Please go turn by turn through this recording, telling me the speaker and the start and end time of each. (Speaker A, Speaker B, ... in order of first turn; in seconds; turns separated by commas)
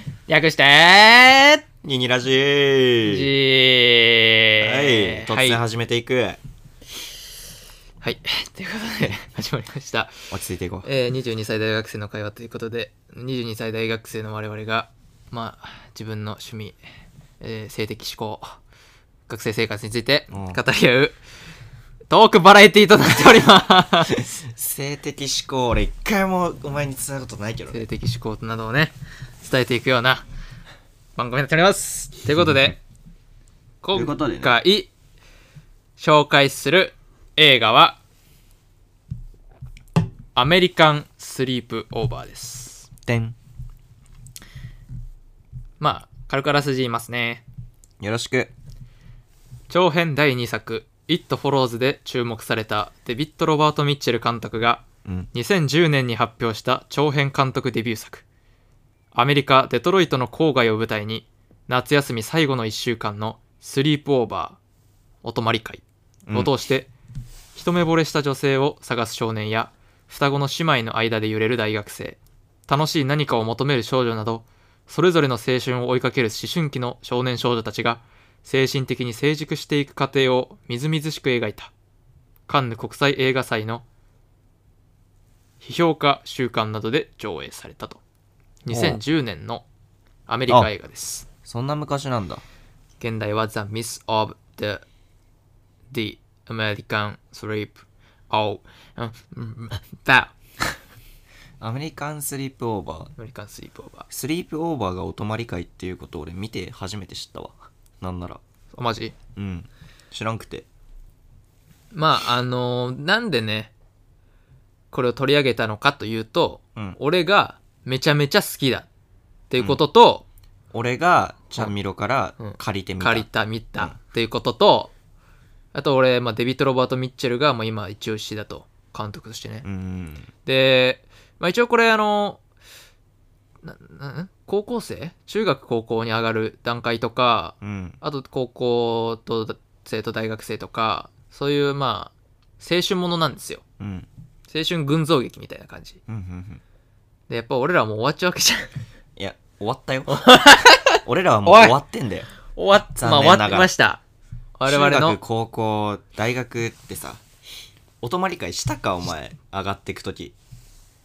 Speaker A: 0.3-1.6, Speaker B: 1.8-3.3, Speaker A: 3.0-5.6, Speaker B: 4.6-6.4, Speaker A: 8.0-10.2, Speaker B: 10.3-10.9, Speaker A: 10.8-16.8, Speaker A: 17.4-18.5, Speaker A: 19.3-21.2, Speaker B: 20.3-20.6, Speaker A: 22.1-24.2, Speaker B: 24.2-27.8, Speaker A: 27.7-30.2, Speaker A: 31.1-32.8, Speaker A: 33.8-34.9, Speaker B: 33.9-34.6, Speaker A: 36.0-38.0, Speaker A: 40.4-42.9, Speaker B: 43.0-43.4, Speaker A: 45.8-47.4, Speaker B: 48.0-48.5, Speaker A: 49.7-58.2, Speaker A: 59.1-64.6, Speaker A: 65.2-66.9, Speaker B: 66.3-66.5, Speaker A: 67.5-81.7, Speaker A: 82.5-83.8, Speaker A: 85.6-88.0, Speaker A: 88.6-89.6, Speaker B: 88.7-89.0, Speaker A: 90.3-91.3, Speaker B: 91.4-92.4, Speaker A: 93.0-94.8, Speaker A: 95.9-100.8, Speaker B: 101.6-103.1, Speaker A: 103.2-104.1, Speaker B: 104.1-108.4, Speaker A: 108.7-109.1, Speaker B: 109.3-110.7, Speaker A: 111.9-113.7, Speaker A: 114.9-118.9, Speaker A: 119.5-120.2, Speaker B: 120.7-123.2, Speaker A: 122.4-124.9, Speaker A: 125.7-129.7, Speaker B: 129.6-130.3, Speaker A: 130.4-132.4, Speaker A: 133.6-143.6, Speaker B: 137.6-138.0, Speaker B: 143.8-144.1, Speaker A: 144.5-146.0, Speaker B: 146.1-146.6, Speaker A: 147.3-148.7, Speaker B: 149.2-150.3, Speaker A: 150.1-151.7, Speaker B: 151.0-152.3, Speaker A: 152.5-154.0, Speaker B: 152.9-153.7, Speaker A: 154.6-155.2, Speaker B: 154.6-157.2, Speaker B: 158.0-160.3